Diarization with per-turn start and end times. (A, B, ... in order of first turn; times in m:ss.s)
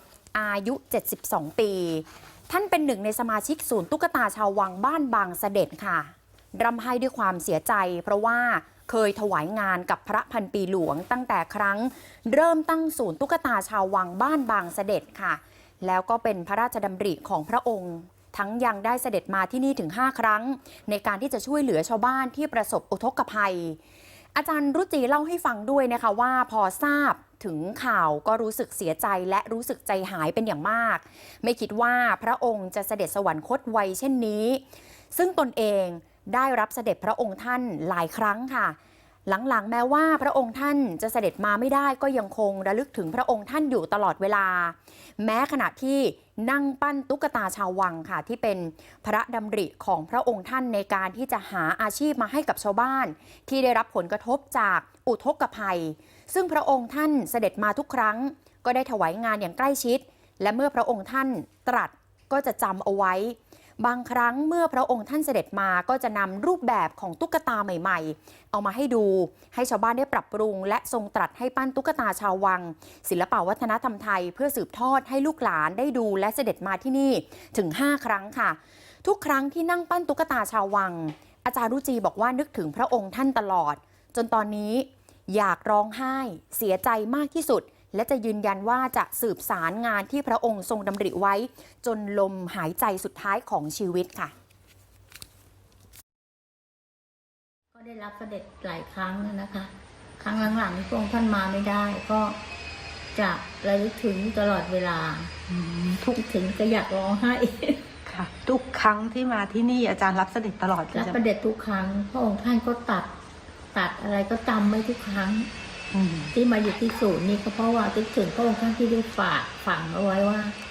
0:00.3-0:23.8 A
0:24.4-0:34.6 A
0:35.1-1:34.3 A
1:37.7-1:42.4 B
1:43.2-1:45.3 B
1:45.5-1:46.1 C
1:46.0-1:47.8 B
1:48.1-1:51.2 C
1:50.9-1:53.1 B
1:53.7-1:55.5 B
1:55.9-1:56.3 C
1:56.3-2:00.6 B